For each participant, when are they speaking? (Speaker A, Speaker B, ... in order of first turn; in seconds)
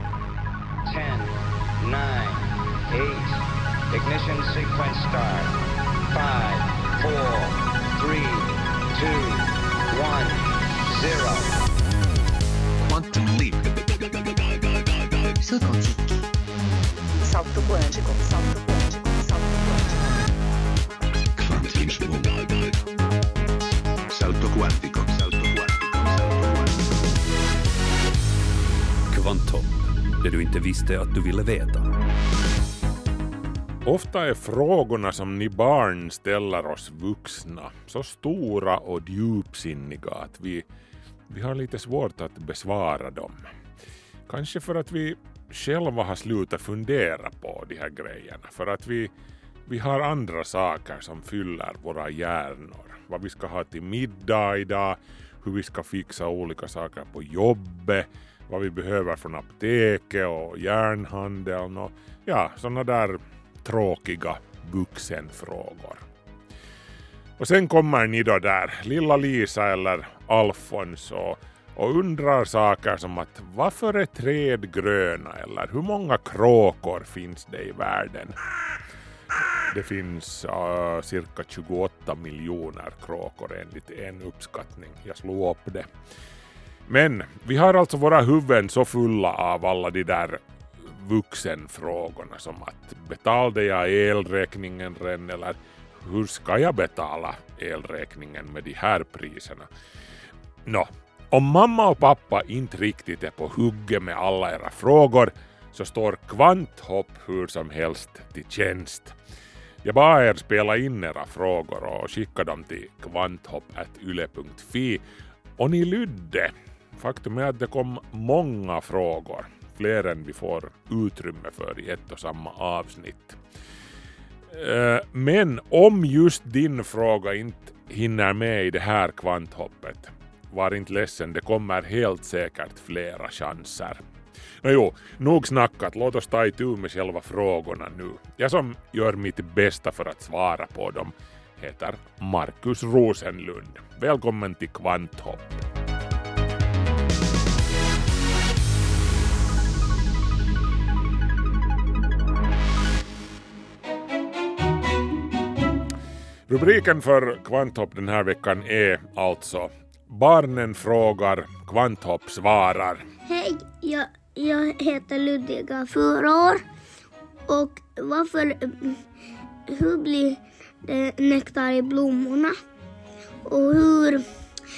Speaker A: 0.9-3.4, 3.9-5.5, 6.1-11.5
Speaker B: 12.8-16.2, 21.4-22.8, 24.1-27.0
Speaker C: 17.2-20.1
Speaker D: 29.1-31.9
Speaker E: 33.9-40.6, 41.3-43.4, 44.3-49.1, 49.7-66.0, 67.4-78.4, 79.7-85.9, 86.9-99.7, 100.7-109.2, 109.8-115.0, 115.6-123.4, 124.5-134.0, 134.6-145.6, 156.5-163.0
Speaker F: 163.3-166.7, 167.5-169.0, 169.7-172.6, 173.5-174.3